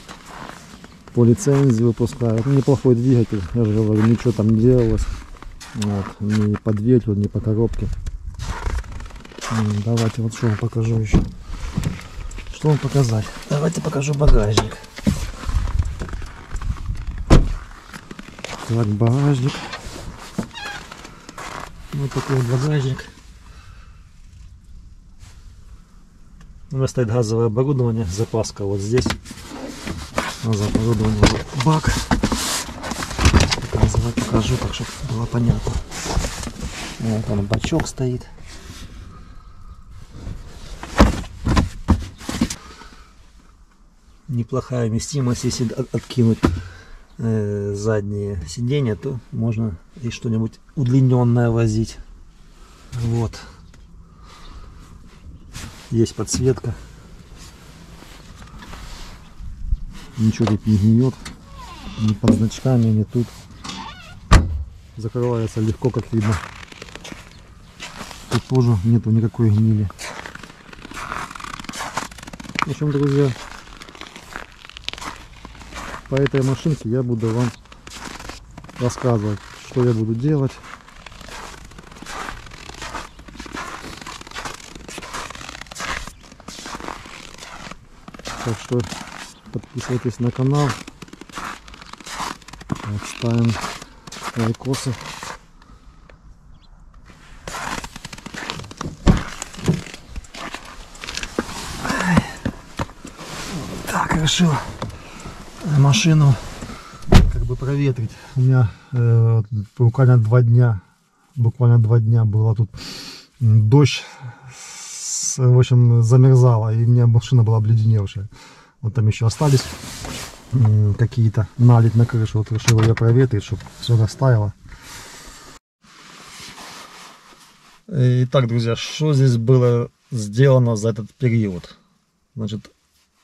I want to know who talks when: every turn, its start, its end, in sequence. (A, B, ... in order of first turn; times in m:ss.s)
0:01.1-0:05.1 A
0:05.7-0:07.9 A
0:09.5-0:11.3 A
0:12.5-0:14.8 A
0:18.6-0:19.7 A
0:21.9-0:23.1 A
0:26.7-0:29.2 A
0:30.4-0:32.2 A
0:33.4-0:35.8 A
0:37.0-0:38.3 A
0:44.3-0:46.6 A
0:47.2-0:52.0 A
0:52.9-0:53.5 A
0:55.9-0:56.8 A
1:00.2-1:01.2 A
1:02.0-1:03.3 A
1:05.0-1:06.4 A
1:08.3-1:09.9 A
1:12.6-1:13.4 A
1:16.1-1:17.5 A
1:18.8-1:20.6 A
1:28.4-1:28.9 A
1:29.5-1:30.8 A
1:32.8-1:33.7 A
1:34.3-1:35.1 A
1:41.8-1:42.5 A
1:43.5-1:44.8 A
1:45.6-1:46.5 A
1:47.1-1:50.8 A
1:51.4-1:58.3 A
1:58.8-1:59.7 A
2:00.5-2:04.5 A
2:07.9-2:11.7 A
2:12.3-2:12.7 A